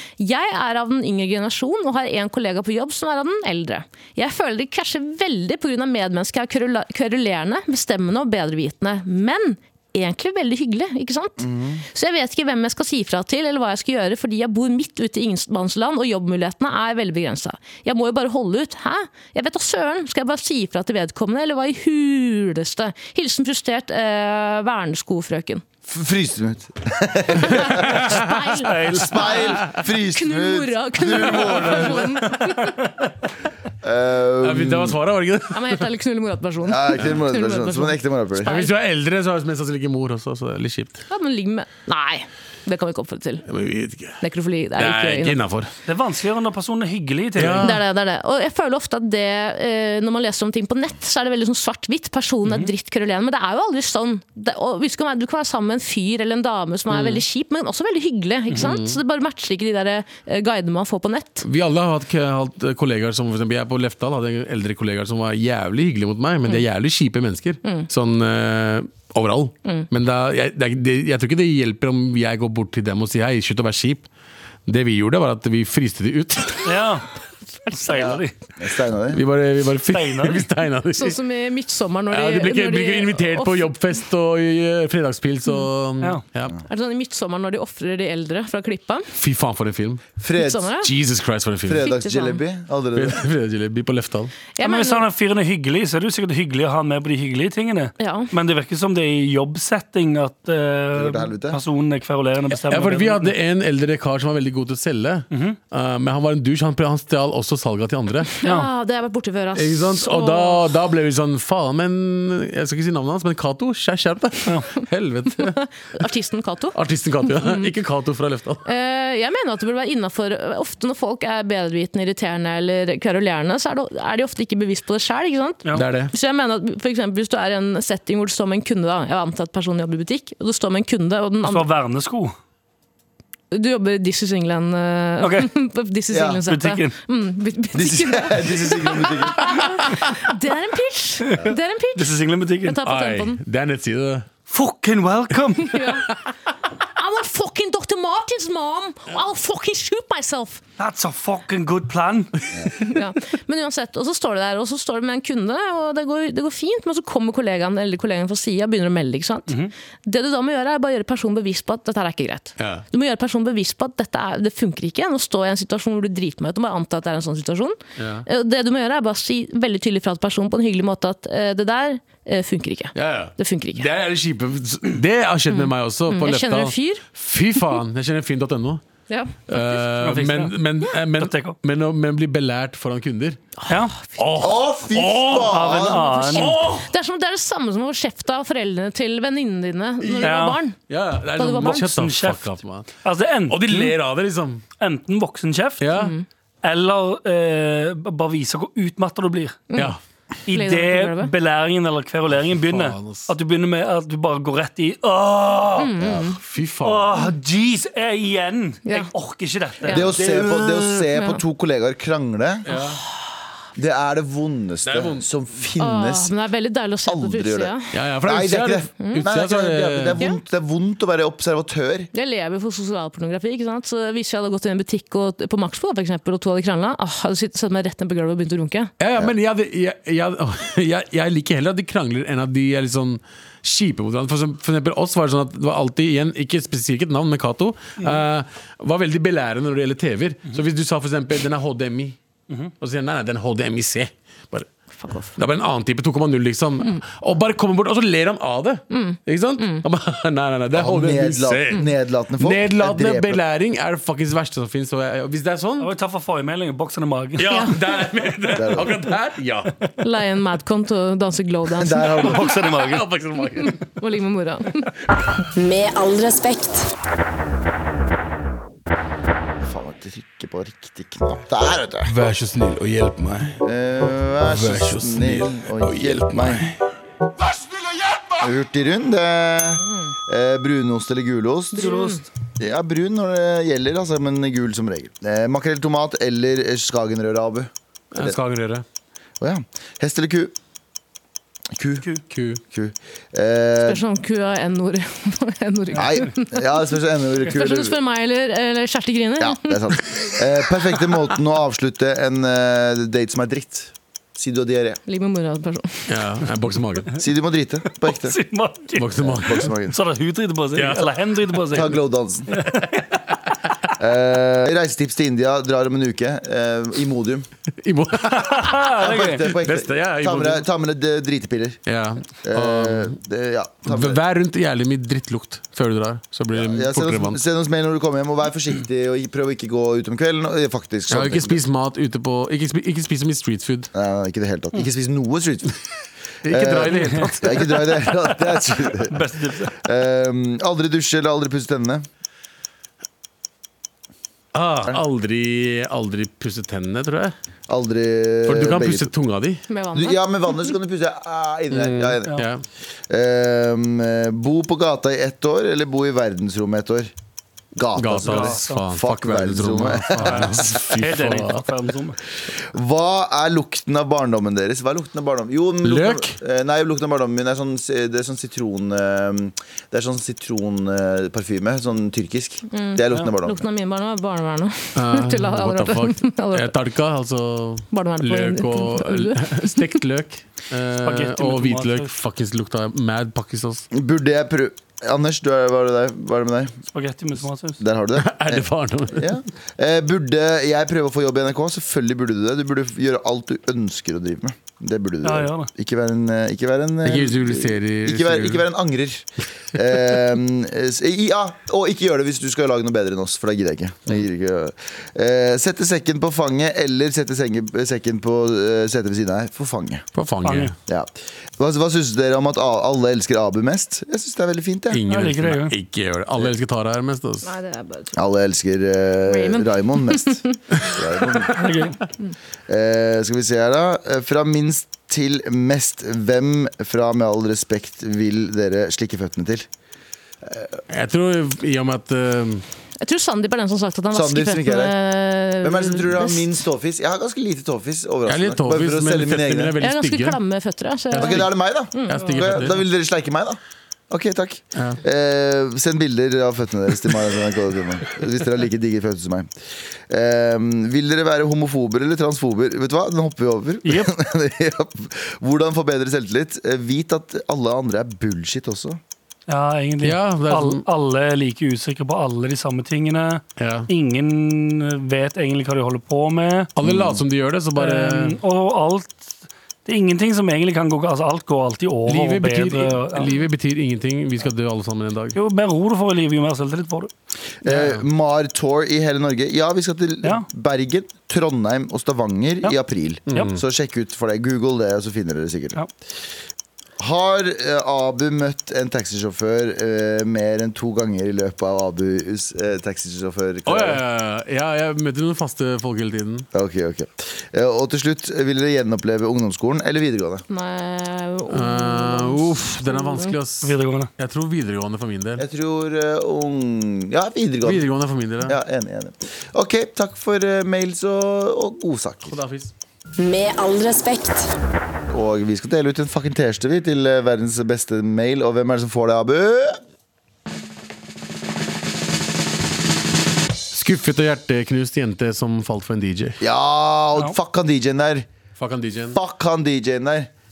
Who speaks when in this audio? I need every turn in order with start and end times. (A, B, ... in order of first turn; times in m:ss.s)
0:00.2-0:25.6 A
0:11.4-0:11.8 B
0:25.9-0:28.0 B
0:27.4-0:32.8 A
0:27.7-0:28.5 C
0:28.6-0:29.4 D
0:28.9-0:32.1 B
0:33.8-0:35.0 B
0:34.4-0:35.8 C
0:35.5-0:38.7 A
0:36.6-0:38.5 B
0:38.4-0:41.0 C
0:41.1-0:43.4 A
0:43.4-0:44.2 C
0:44.2-0:45.4 A
0:44.8-0:45.7 C
0:45.8-0:47.7 D
0:47.4-0:47.8 C
0:47.6-1:01.4 A
0:52.4-0:52.7 D
0:56.9-0:57.2 C
0:58.5-0:59.0 C
1:01.4-1:14.0 C
1:07.6-1:07.9 A
1:14.7-1:16.7 C
1:16.6-1:17.0 D
1:17.7-1:18.3 D
1:18.6-1:19.2 B
1:19.1-1:21.2 C
1:19.9-1:20.4 D
1:20.9-1:23.7 A
1:22.1-1:26.6 C
1:26.6-1:29.1 A
1:29.1-1:30.1 C
1:30.2-1:30.7 B
1:30.4-1:30.9 A
1:30.8-1:31.8 C
1:31.6-1:33.2 B
1:31.8-1:32.4 A
1:32.9-1:34.3 C
1:34.6-1:35.0 A
1:34.6-1:43.3 D
1:38.0-1:38.3 A
1:40.9-1:41.6 B
1:42.6-1:48.3 C
1:45.3-1:45.6 D
1:48.4-1:50.7 A
1:49.5-1:56.0 C
1:55.4-1:57.7 A
1:56.7-1:58.6 C
1:58.6-2:11.7 A
2:05.7-2:06.1 C
2:11.4-2:12.3 D
2:13.5-2:23.4 A
2:15.2-2:15.5 D
2:16.1-2:16.4 B
2:16.5-2:17.0 D
2:17.7-2:19.7 B
2:21.3-2:22.8 D
2:22.8-2:24.3 C
2:24.5-2:26.0 D
2:25.6-2:26.1 A
2:26.9-2:30.6 A
2:30.8-2:32.4 D
2:32.8-2:39.5 A
2:40.0-2:53.9 A
2:42.6-2:42.8 C
2:48.0-2:48.2 C
2:52.9-2:58.8 C
2:55.5-2:57.0 A
2:59.1-2:59.8 A
2:59.5-3:03.4 C
3:00.0-3:00.5 D
3:01.2-3:01.6 D
3:03.6-3:04.2 A
3:03.7-3:03.9 D
3:04.2-3:05.8 C
3:04.4-3:06.1 B
3:05.4-3:06.5 D
3:06.0-3:10.8 A
3:06.3-3:06.9 C
3:10.0-3:12.9 C
3:10.2-3:10.6 D
3:11.4-3:12.0 A
3:11.8-3:12.5 D
3:13.0-3:13.9 D
3:13.5-3:14.6 C
3:14.8-3:15.8 D
3:15.8-3:16.2 C
3:16.0-3:16.2 A
3:16.6-3:19.7 D
3:19.7-3:19.9 A
3:20.5-3:25.9 D
3:20.5-3:21.3 A
3:22.6-3:23.3 C
3:25.8-3:26.4 A
3:26.2-3:27.2 C
3:26.8-3:30.5 D
3:29.9-3:32.6 B
3:30.2-3:30.8 C
3:31.1-3:31.4 A
3:32.6-3:33.0 C
3:32.7-3:33.0 A
3:33.8-3:36.3 B
3:34.8-3:35.3 C
3:35.8-3:37.9 A
3:37.0-3:42.1 B
3:37.9-3:40.2 C
3:42.1-3:48.9 A
3:49.0-4:02.2 C
4:02.8-4:04.7 C
4:05.0-4:05.4 A
4:05.4-4:11.8 C
4:08.9-4:09.8 A
4:10.7-4:13.4 B
4:12.4-4:15.9 C
4:15.8-4:17.5 D
4:17.4-4:19.7 C
4:17.4-4:17.7 A
4:18.5-4:18.9 B
4:20.0-4:22.3 A
4:21.8-4:22.4 B
4:22.2-4:23.0 D
4:22.8-4:23.8 C
4:23.4-4:24.9 A
4:25.5-4:26.9 E
4:29.6-4:32.2 B
4:32.2-4:33.2 F
4:32.7-4:33.5 C
4:33.6-4:36.7 B
4:34.6-4:36.6 F
4:38.4-4:41.9 B
4:39.8-4:40.1 A
4:41.7-4:42.2 A
4:41.7-4:42.3 D
4:42.6-4:48.4 B
4:48.1-4:48.8 C
4:49.4-4:50.5 B
4:51.7-4:52.1 B
4:52.3-4:52.6 C
4:52.6-4:54.0 B
4:53.8-4:59.8 A
4:55.9-4:58.0 B
4:59.4-5:05.0 B
5:05.1-5:06.1 A
5:06.1-5:07.1 C
5:07.2-5:08.4 B
5:08.0-5:11.9 D
5:09.0-5:09.7 C
5:09.2-5:10.0 B
5:10.8-5:11.2 C
5:11.7-5:12.5 B
5:12.5-5:12.9 D
5:14.0-5:17.5 B
5:17.8-5:18.7 C
5:18.3-5:19.5 D
5:19.0-5:21.8 B
5:19.5-5:20.6 C
5:21.9-5:23.1 C
5:22.4-5:24.2 B
5:23.9-5:27.4 C
5:26.5-5:31.6 B
5:31.1-5:33.9 C
5:33.9-5:35.7 B
5:36.4-5:37.8 C
5:36.5-5:42.0 B
5:36.9-5:37.3 D
5:38.5-5:39.8 D
5:44.5-5:47.3 C
5:47.7-5:49.1 B
5:48.4-5:49.6 C
5:49.7-5:50.7 A
5:49.9-5:52.4 B
5:51.7-5:52.6 C
5:53.1-5:57.1 B
5:57.7-6:00.9 B
5:57.9-6:01.7 C
5:58.2-5:58.8 D
6:00.2-6:02.2 D
6:02.7-6:13.6 B
6:05.8-6:06.3 C
6:12.7-6:16.8 A
6:14.9-6:23.8 C
6:17.9-6:20.0 A
6:21.0-6:22.1 D
6:23.9-6:26.8 B
6:26.9-6:27.8 D
6:27.8-6:50.1 B
6:28.2-6:29.3 C
6:35.2-6:35.7 D
6:37.0-6:38.6 C
6:50.1-6:50.7 C
6:50.4-6:50.7 D
6:50.9-6:55.0 B
6:54.9-6:57.5 C
6:55.1-6:55.7 D
6:57.4-6:58.2 A
6:58.2-7:01.5 B
6:59.3-7:00.6 A
7:01.6-7:02.0 D
7:02.7-7:09.7 B
7:10.4-7:10.8 B
7:10.9-7:12.6 C
7:13.0-7:16.6 A
7:14.1-7:15.0 B
7:15.6-7:19.7 B
7:18.3-7:20.4 C
7:19.8-7:22.2 A
7:21.1-7:21.5 C
7:21.2-7:23.6 B
7:22.0-7:22.8 C
7:24.1-7:29.5 B
7:30.1-7:39.0 B
7:33.8-7:34.1 D
7:39.5-7:46.7 D
7:40.0-7:40.8 C
7:43.6-7:43.9 C
7:46.8-7:48.4 C
7:46.8-7:47.2 B
7:47.8-7:53.3 D
7:52.0-7:55.4 C
7:55.3-7:57.1 D
7:57.6-8:05.8 B
7:57.7-7:58.0 C
8:03.3-8:03.6 C
8:07.0-8:14.0 B
8:13.6-8:16.5 C
8:16.5-8:20.4 B
8:20.5-8:23.3 A
8:21.5-8:25.4 C
8:23.6-8:24.1 D
8:25.4-8:27.9 B
8:27.6-8:28.6 C
8:28.4-8:32.4 B
8:32.3-8:32.7 C
8:33.2-8:34.5 E
8:35.1-8:39.8 B
8:43.7-8:46.4 C
8:46.4-8:48.3 B
8:48.6-8:49.2 C
8:49.1-8:50.3 B